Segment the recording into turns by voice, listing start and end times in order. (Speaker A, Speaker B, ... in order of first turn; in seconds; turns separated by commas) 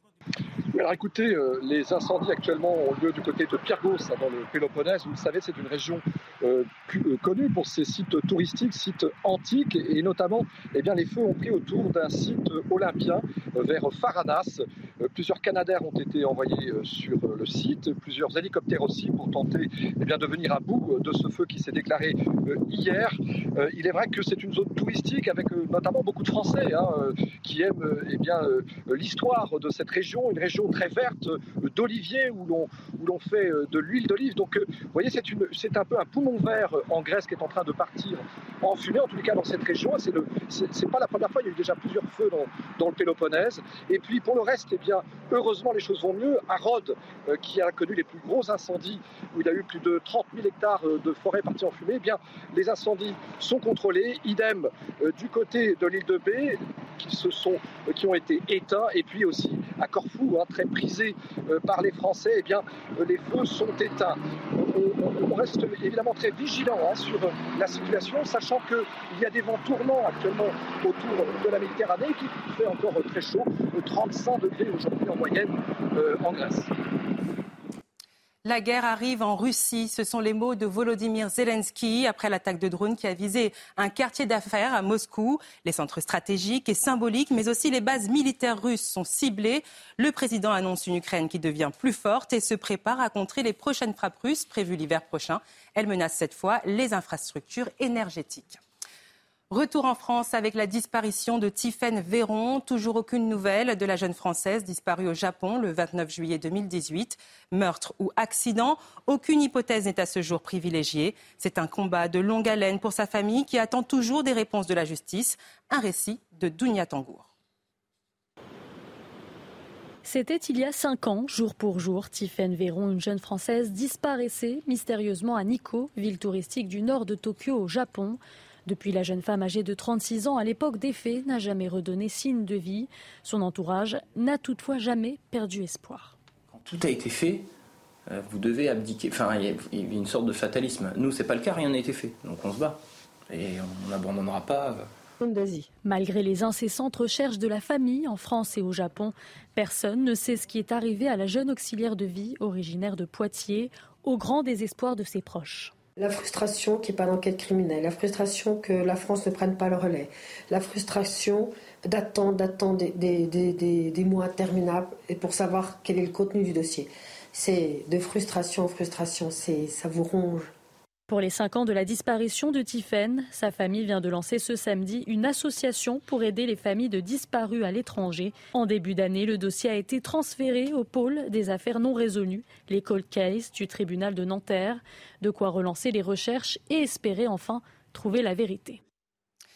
Speaker A: 0.7-76.7, Speaker B: 78.5-98.6, Speaker B: 99.5-117.3, Speaker C: 120.0-136.2, Speaker D: 136.5-137.5, Speaker D: 138.1-144.9, Speaker E: 145.2-145.7, Speaker C: 145.8-155.7, Speaker E: 156.0-170.5, Speaker C: 171.1-188.8